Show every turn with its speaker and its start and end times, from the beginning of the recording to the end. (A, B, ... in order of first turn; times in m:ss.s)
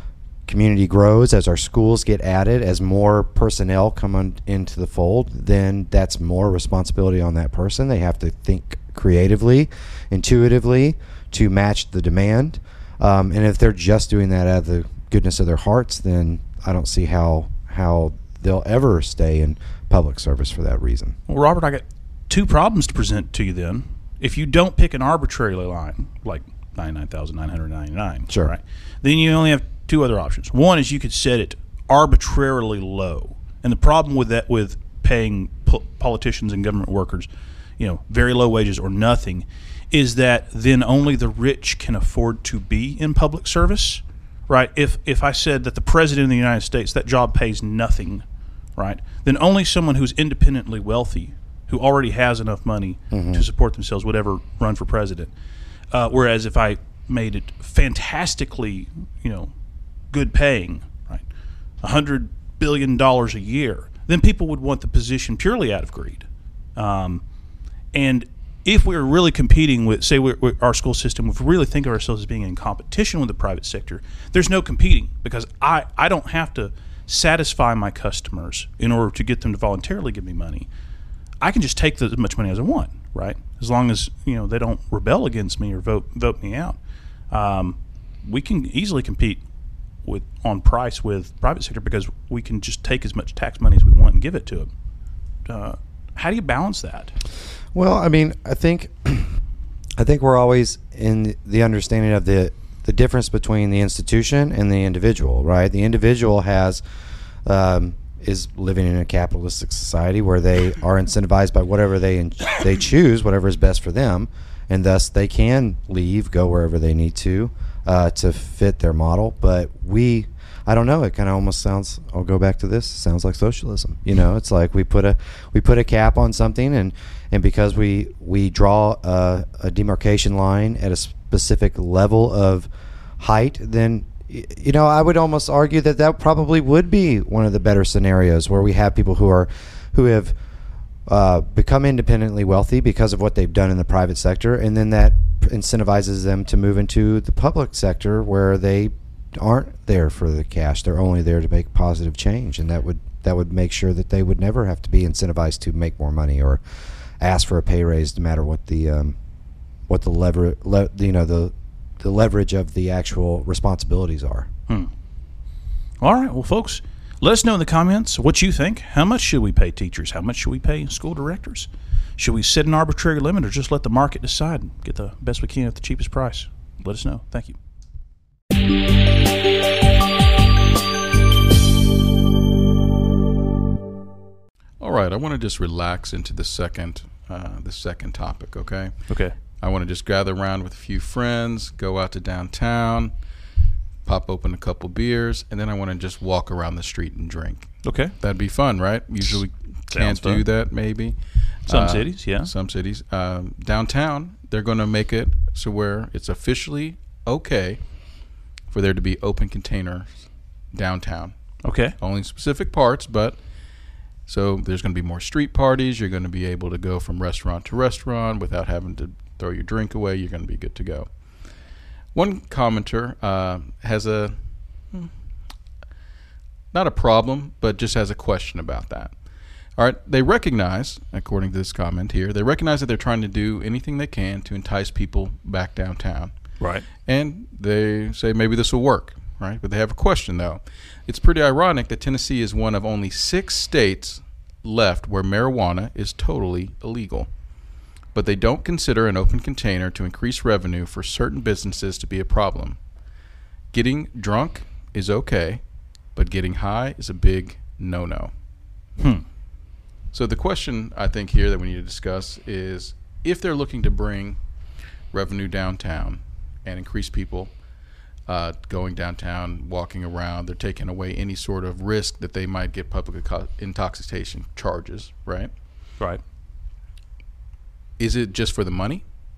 0:00.5-0:21.2 A
0:21.3-0:48.2 B
0:48.8-0:55.3 B
0:53.1-0:53.4 A
0:55.9-0:59.5 B
1:00.1-1:01.3 B
1:01.8-1:07.2 B
1:07.9-1:20.7 B
1:21.4-1:26.8 B
1:27.3-1:29.4 B
1:30.0-1:34.7 B
1:35.5-1:37.1 B
1:37.7-1:39.4 A
1:40.0-1:46.8 A
1:47.4-2:20.4 A
2:21.1-2:36.6 A
2:37.2-2:39.2 A
2:39.9-2:44.5 A
2:46.0-2:57.6 B
3:04.8-3:13.1 C
3:09.1-3:09.4 B
3:14.1-3:27.8 C
3:17.8-3:18.1 B
3:19.9-3:20.4 B
3:21.7-3:22.5 B
3:28.7-3:30.2 C
3:30.7-3:33.4 C
3:31.6-3:31.9 B
3:34.3-3:41.1 C
3:42.2-3:44.4 C
3:46.7-3:49.1 C
3:49.8-3:56.3 C
3:56.6-3:56.9 B
3:57.1-4:07.3 C
4:08.1-4:12.8 C
4:13.7-4:15.6 C
4:16.2-4:18.3 C
4:19.0-4:19.2 B
4:20.1-4:24.4 C
4:25.1-4:27.5 C
4:28.3-4:35.5 C
4:38.0-4:39.0 C